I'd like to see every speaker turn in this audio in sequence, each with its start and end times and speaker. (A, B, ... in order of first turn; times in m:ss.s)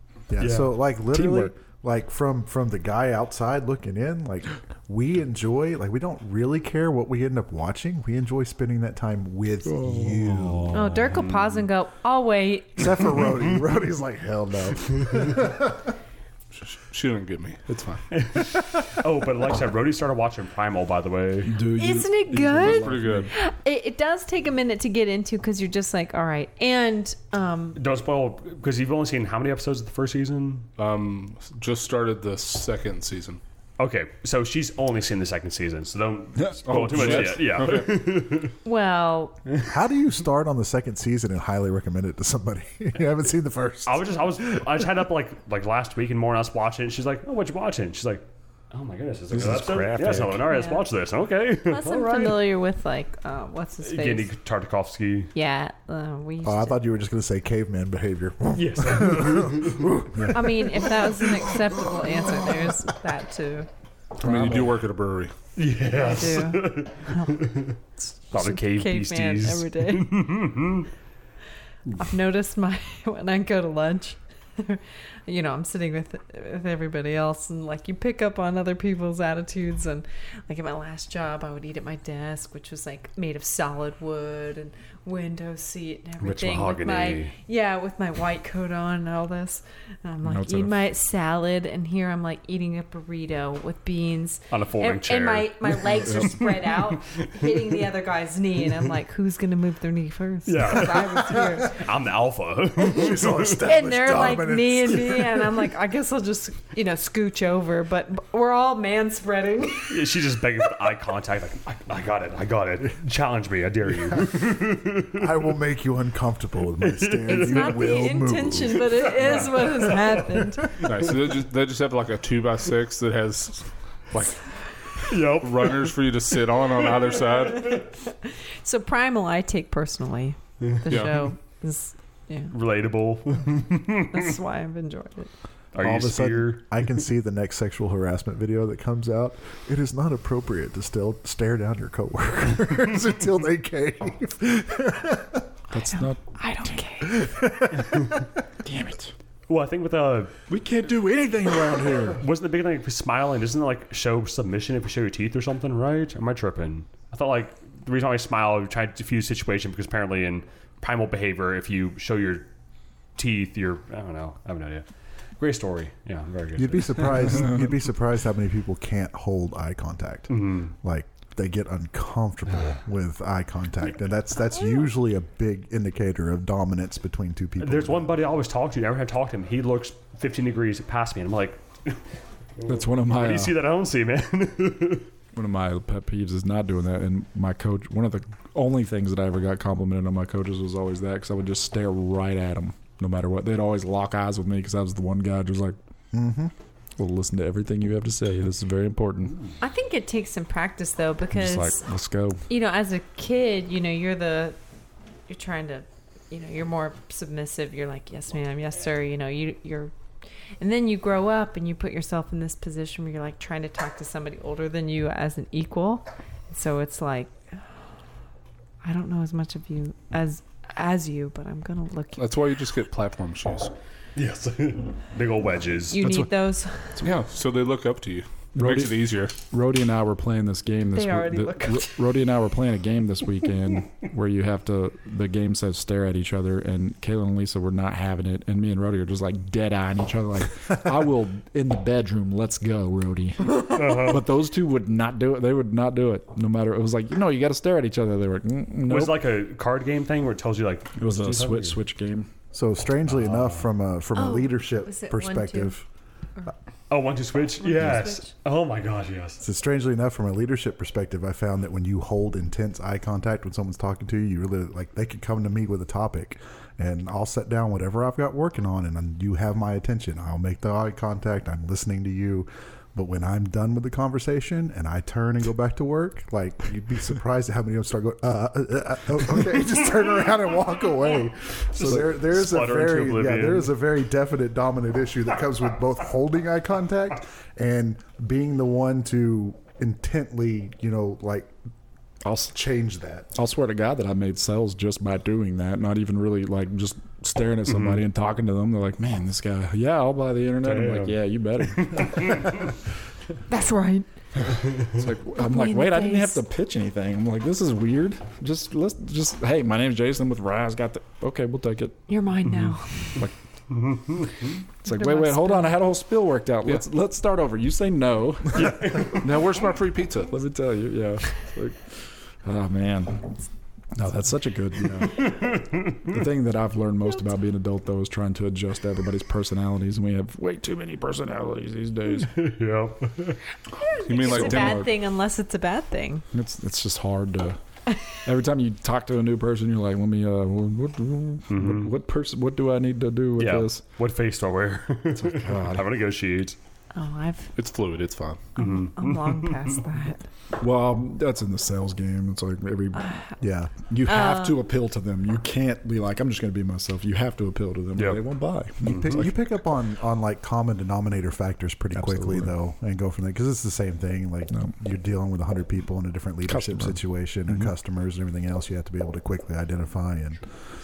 0:00.3-0:10.8 A
0:00.4-0:00.8 B
0:01.1-0:01.5 C
0:09.6-0:10.7 C
0:10.7-0:13.0 D
0:10.8-0:11.5 B
0:12.8-0:15.9 A
0:16.6-0:18.1 E
0:18.1-0:21.6 B
0:21.4-0:23.3 C
0:21.8-0:27.8 D
0:22.6-0:23.3 E
0:27.8-0:30.7 B
0:30.8-0:33.4 E
0:33.8-0:38.5 B
0:36.7-0:38.1 E
0:38.6-0:39.4 D
0:39.6-0:44.8 A
0:43.8-0:52.5 B
0:49.3-0:50.4 C
0:50.4-0:50.9 D
0:51.6-0:54.3 D
0:53.8-0:55.3 B
0:55.3-0:56.8 D
0:56.4-1:01.3 A
0:58.5-1:00.0 B
1:00.3-1:03.7 D
1:04.2-1:05.3 E
1:04.2-1:04.7 C
1:05.6-1:07.8 B
1:05.9-1:07.5 D
1:08.3-1:10.9 B
1:08.3-1:10.5 D
1:12.0-1:41.8 D
1:26.2-1:27.3 B
1:30.2-1:30.8 C
1:34.5-1:37.5 B
1:36.0-1:36.4 C
1:40.5-1:43.6 B
1:42.8-1:45.7 A
1:43.6-1:50.0 D
1:49.9-1:55.4 B
1:55.1-1:59.4 A
1:56.8-1:58.1 B
1:57.3-2:00.8 D
1:59.2-2:00.2 B
2:00.8-2:04.4 E
2:05.1-2:06.1 B
2:05.3-2:07.8 E
2:06.7-2:07.4 B
2:07.6-2:12.5 D
2:10.9-2:11.3 E
2:12.5-2:14.3 B
2:14.1-2:15.3 D
2:15.7-2:16.7 B
2:15.8-2:25.4 A
2:25.7-2:26.9 C
2:25.9-2:27.2 D
2:27.1-2:28.2 A
2:28.6-2:29.1 C
2:29.5-2:30.3 B
2:30.5-2:32.2 C
2:32.2-2:42.5 B
2:43.2-2:44.9 B
2:45.4-2:47.5 B
2:46.6-2:58.2 A
2:50.3-2:50.7 B
2:57.6-3:02.0 B
3:02.6-3:05.1 B
3:02.6-3:03.6 C
3:05.3-3:15.8 C
3:16.1-3:16.5 A
3:17.0-3:19.4 C
3:19.6-3:21.8 D
3:21.3-3:22.5 C
3:22.5-3:24.6 D
3:25.3-3:29.9 D
3:30.6-3:37.6 D
3:38.8-3:42.3 D
3:42.2-3:43.7 E
3:44.2-3:46.0 B
3:45.9-3:47.0 D
3:46.0-3:46.3 C
3:47.0-3:49.3 E
3:48.6-4:09.3 C
3:50.9-3:52.0 D
4:03.6-4:04.3 B
4:08.9-4:11.8 B
4:11.0-4:12.3 C
4:12.5-4:15.8 A
4:13.1-4:13.6 B
4:14.2-4:15.8 D
4:16.9-4:19.4 B
4:17.6-4:18.3 D
4:19.4-4:51.5 A
4:41.7-4:43.7 B
4:52.2-4:52.6 C
4:52.5-4:53.3 A
4:53.3-5:02.5 C
4:57.7-4:58.0 B
5:00.6-5:02.7 B
5:03.5-5:04.1 D
5:04.8-5:12.0 C
5:05.4-5:06.4 D
5:12.1-5:13.1 D
5:13.7-5:14.5 B
5:14.8-5:18.9 C
5:14.8-5:15.8 D
5:18.6-5:19.2 B
5:19.1-5:20.3 E
5:20.3-5:23.4 C
5:23.9-5:32.4 C
5:25.2-5:26.0 B
5:32.2-5:33.4 B
5:33.7-5:36.2 D
5:34.0-5:34.9 E
5:34.3-5:34.9 C
5:36.3-5:37.6 C
5:38.2-5:43.8 C
5:41.5-5:41.9 B
5:43.4-5:46.6 B
5:45.2-5:45.9 C
5:46.9-5:47.5 D
5:47.6-5:48.4 E
5:48.6-5:50.2 D
5:48.6-5:49.8 B
5:50.6-5:53.1 C
5:53.0-5:53.4 D
5:53.4-5:53.7 A
5:53.8-5:59.4 C
5:54.0-5:54.6 D
5:58.0-5:58.2 B
5:58.8-5:59.2 B
5:58.8-6:10.5 A
6:01.9-6:02.6 C
6:06.4-6:07.7 C